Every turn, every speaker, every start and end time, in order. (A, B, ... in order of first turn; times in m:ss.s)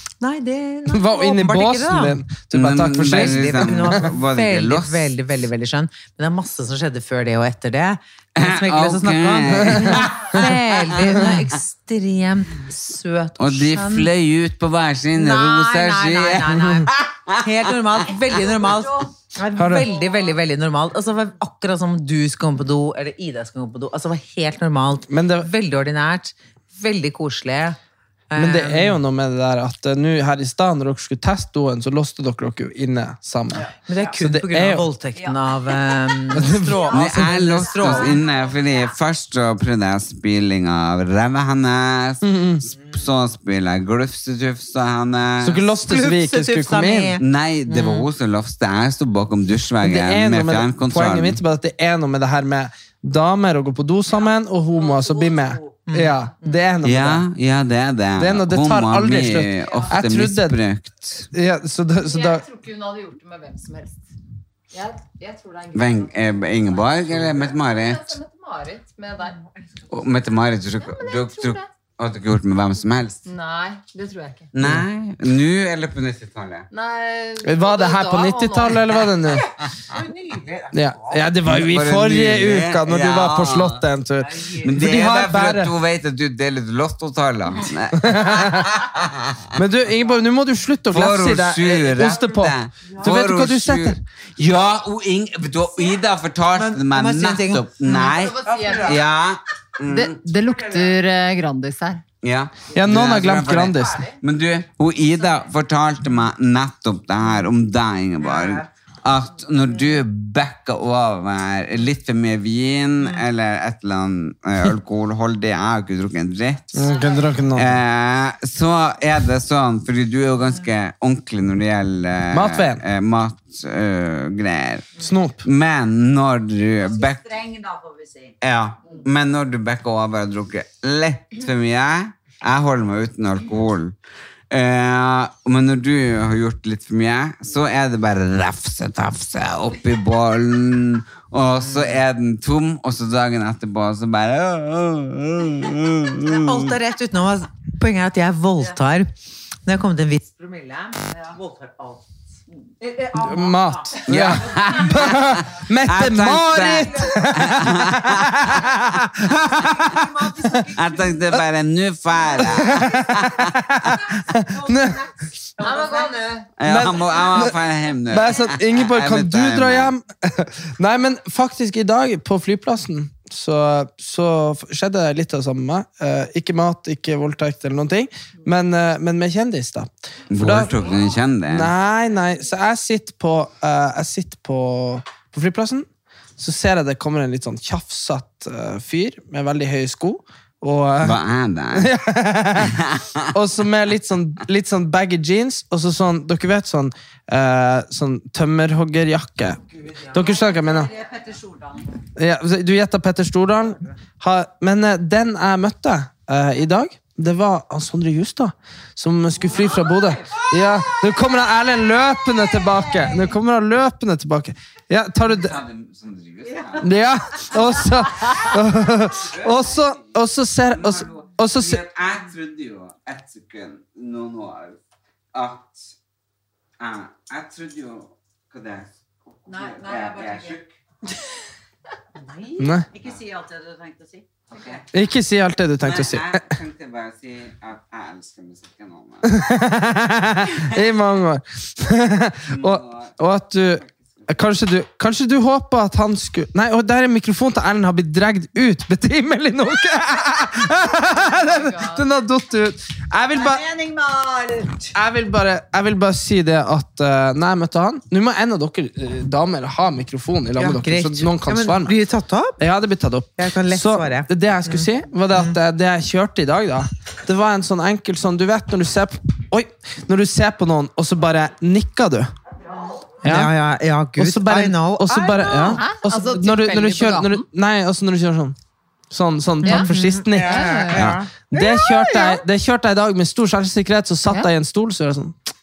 0:00.2-0:02.2 A
0:00.9-0:03.8 B
0:02.5-0:05.2 C
0:03.0-0:14.1 A
0:08.4-0:11.3 C
0:09.6-0:10.4 B
0:13.4-0:17.4 C
0:15.2-0:27.8 A
0:19.6-0:19.9 B
0:25.1-0:25.5 B
0:28.3-0:29.0 A
0:28.4-0:34.8 B
0:33.8-0:38.2 A
0:36.3-0:36.8 B
0:36.9-0:45.7 C
0:42.2-0:42.6 B
0:45.4-0:47.2 B
0:45.9-0:48.1 A
0:47.2-0:51.4 C
0:49.8-0:57.2 B
0:55.9-0:56.2 A
0:56.8-1:01.3 C
0:58.2-1:00.6 B
1:01.3-1:02.4 B
1:02.0-1:04.0 D
1:04.7-1:06.8 D
1:05.7-1:08.2 C
1:07.5-1:09.4 D
1:09.9-1:13.2 C
1:10.9-1:11.7 D
1:13.3-1:14.5 D
1:14.5-1:16.7 C
1:16.7-1:18.9 D
1:17.4-1:19.4 B
1:19.9-1:21.3 A
1:20.7-1:25.7 B
1:21.5-1:23.8 C
1:24.6-1:29.4 C
1:28.0-1:28.7 B
1:29.6-1:34.0 B
1:30.9-1:40.2 C
1:36.6-1:38.1 A
1:38.1-1:39.0 D
1:39.9-1:42.0 D
1:42.2-1:57.0 C
1:42.7-1:44.0 B
1:56.7-1:57.8 B
1:57.5-2:07.4 C
2:02.3-2:02.8 B
2:05.0-2:05.4 B
2:07.0-2:08.4 E
2:08.4-2:14.0 C
2:14.5-2:26.7 C
2:21.7-2:22.0 A
2:26.2-2:29.1 A
2:29.7-2:32.0 A
2:32.8-2:33.7 E
2:33.2-2:39.6 B
2:34.1-2:40.0 C
2:40.7-2:44.1 C
2:42.5-2:45.1 B
2:45.6-2:46.5 D
2:46.6-2:49.9 C
2:46.6-2:47.6 B
2:48.1-3:00.8 B
3:00.3-3:01.7 C
3:01.5-3:05.9 B
3:06.4-3:11.2 B
3:11.0-3:11.9 C
3:11.7-3:12.8 B
3:12.6-3:13.2 C
3:13.3-3:20.9 B
3:20.2-3:21.9 E
3:22.2-3:35.6 B
3:35.3-3:36.9 C
3:36.8-3:41.8 B
3:39.2-3:40.0 C
3:40.7-3:44.8 C
3:45.3-3:45.9 C
3:46.8-3:50.7 C
3:49.5-3:50.6 E
3:52.2-3:54.8 E
3:52.6-3:52.9 B
3:54.9-3:56.4 B
3:55.8-3:59.4 C
3:59.2-4:13.6 B
4:02.5-4:03.2 C
4:03.8-4:04.2 C
4:11.4-4:12.0 D
4:13.3-4:14.9 E
4:14.9-4:21.9 B
4:20.6-4:22.6 A
4:22.6-4:32.3 B
4:23.4-4:25.6 A
4:33.2-4:33.5 B
4:33.2-4:35.8 A
4:34.2-4:38.6 B
4:35.7-4:37.4 D
4:39.1-4:45.4 B
4:39.6-4:39.9 D
4:39.6-4:42.4 A
4:40.4-4:41.2 D